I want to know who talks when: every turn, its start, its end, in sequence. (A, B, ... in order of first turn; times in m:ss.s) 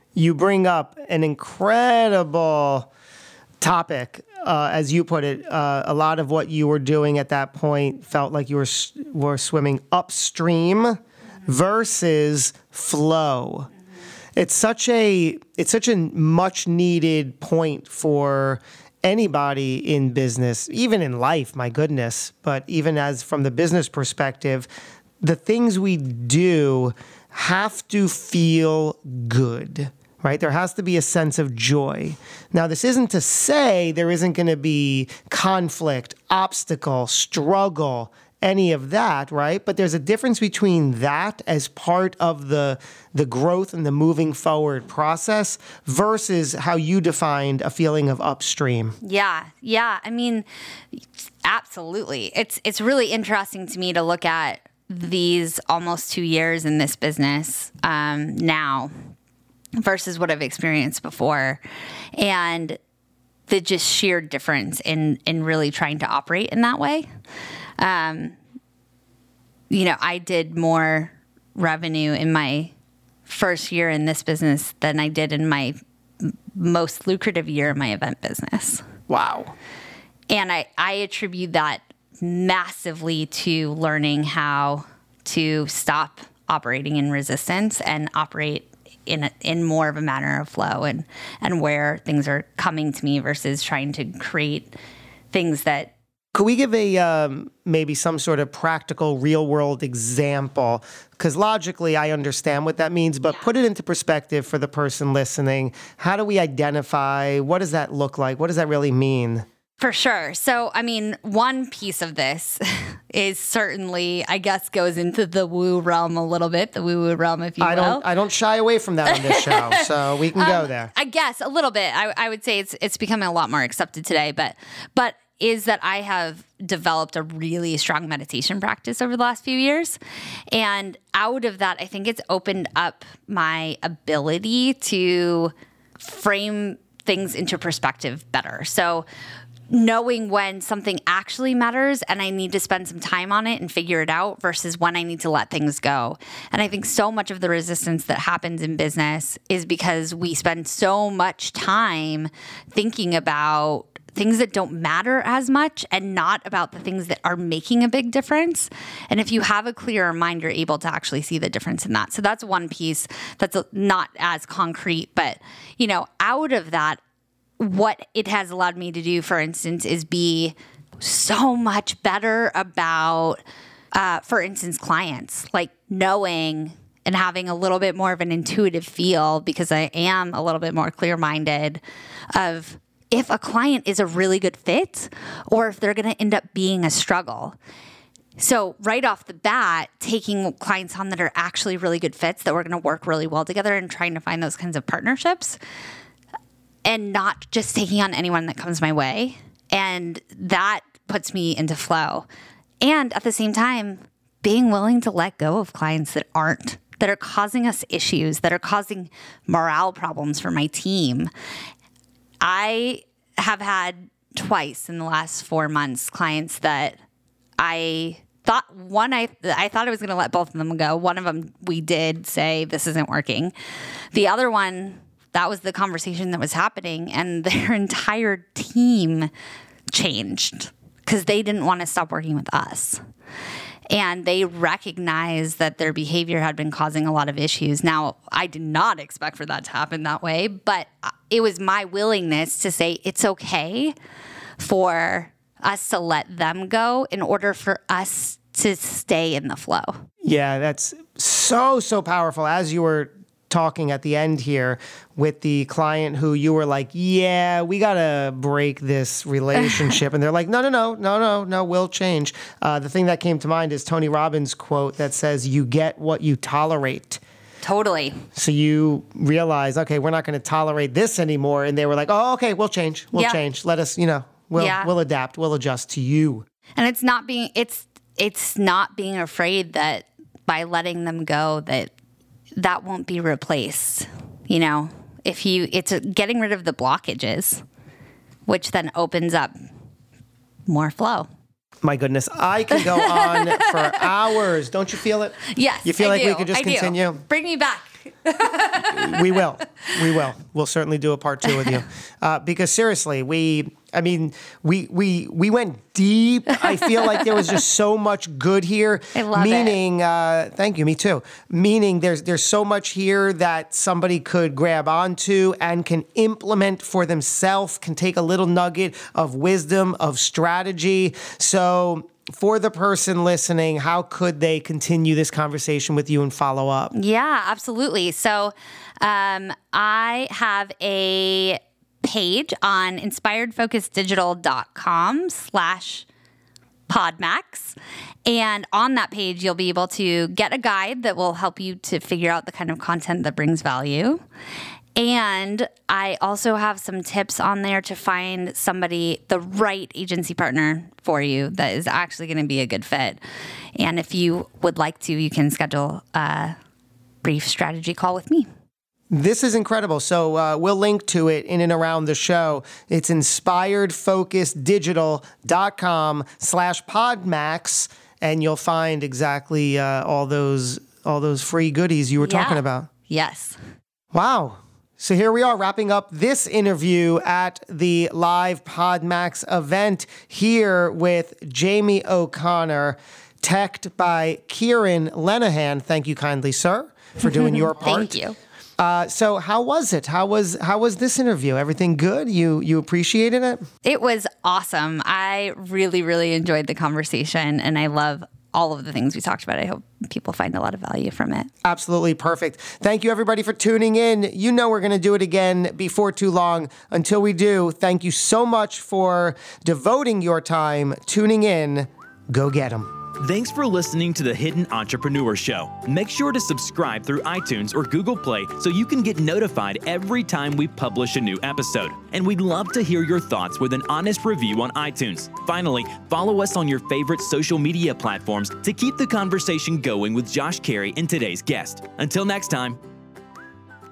0:00.1-0:02.9 A
0:03.6-0:13.7 A
0:14.4-0:24.7 A
0:25.2-0:49.0 A
0:49.0-0:58.9 B
0:59.8-1:01.6 B
1:02.2-1:02.8 B
1:03.5-1:07.1 B
1:07.8-1:08.4 B
1:09.7-1:12.7 B
1:13.2-1:18.8 B
1:19.1-1:19.5 A
1:20.3-1:34.7 B
1:35.3-1:35.9 B
1:36.3-1:49.4 A
1:49.8-1:58.0 B
1:57.6-2:00.9 A
1:59.1-2:10.0 B
2:10.5-2:19.0 B
2:19.7-2:47.0 B
2:47.6-2:53.4 B
2:53.9-3:01.8 B
3:02.3-3:07.6 B
3:08.4-3:15.6 B
3:16.8-3:22.2 B
3:22.8-3:31.3 B
3:32.4-3:37.0 B
3:37.6-3:43.5 B
3:44.1-3:49.3 B
3:49.9-3:53.0 B
3:53.9-4:03.9 B
4:04.6-4:10.0 B
4:10.2-4:27.2 A
4:19.6-4:19.9 B
4:27.6-4:28.2 B
4:28.3-4:36.4 A
4:33.1-4:33.4 B
4:34.6-4:34.9 B
4:36.8-4:41.9 B
4:42.6-4:47.6 B
4:48.4-4:49.5 B
4:50.7-4:51.3 B
4:51.8-4:57.2 A
4:52.7-4:54.1 B
4:55.4-4:59.4 B
4:58.7-5:26.9 A
5:01.5-5:01.8 B
5:06.6-5:07.6 B
5:09.1-5:09.8 B
5:26.9-5:36.0 B
5:36.9-5:44.2 B
5:45.0-5:53.2 B
5:53.8-5:56.6 B
5:57.2-5:58.5 B
5:59.1-6:12.9 A
6:12.2-6:13.6 B
6:14.1-6:28.2 A
6:27.2-6:28.4 B
6:28.8-6:33.6 A
6:33.8-6:41.5 B
6:41.6-6:53.0 A
6:53.2-7:12.8 C